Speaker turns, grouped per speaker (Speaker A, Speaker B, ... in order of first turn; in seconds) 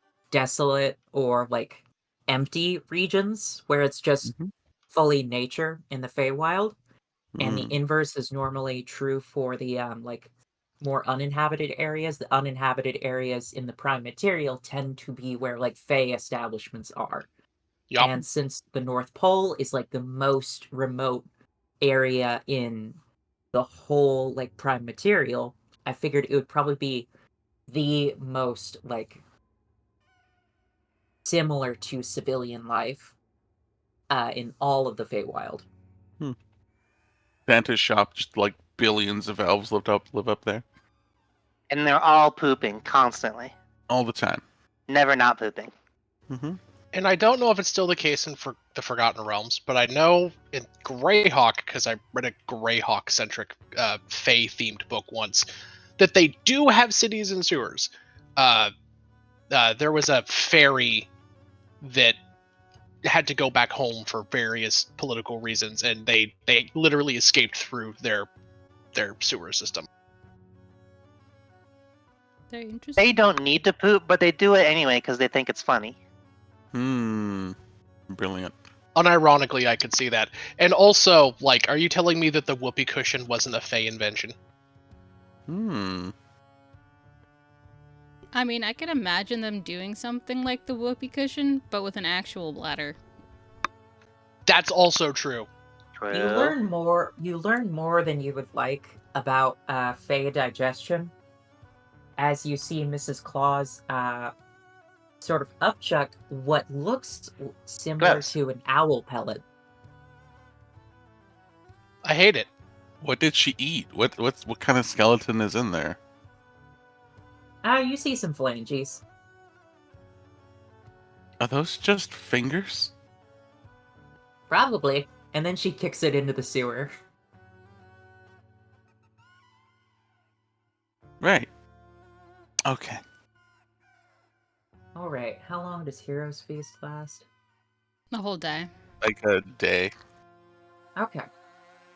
Speaker A: 0.3-4.3, 4.9-6.8, 7.4-10.3, 10.8-17.3, 18.0-21.2, 21.8-23.0, 23.5-27.1, 27.7-29.2, 31.2-33.1, 34.1-35.7, 96.1-101.1, 102.2-104.3, 105.2-109.4, 117.6-119.0, 124.5-126.9, 134.9-137.2, 140.9-141.2
Speaker B: 7.3-7.7, 37.5-40.6, 43.9-44.4, 46.3-46.6, 76.7-77.5, 78.1-78.5, 85.5-86.1, 113.0-116.0, 121.4-122.9, 131.2-131.5, 132.7-133.0, 139.0-139.9
Speaker C: 41.7-43.5, 44.9-45.7, 73.0-76.0, 96.0-96.5, 108.0-108.3
Speaker D: 46.9-55.4, 56.0-58.7, 59.5-61.0, 61.8-62.1, 63.1-68.3, 68.9-69.8, 79.0-84.3, 94.5-95.4, 112.0-112.5
Speaker E: 72.5-73.1, 88.3-93.0, 138.1-138.7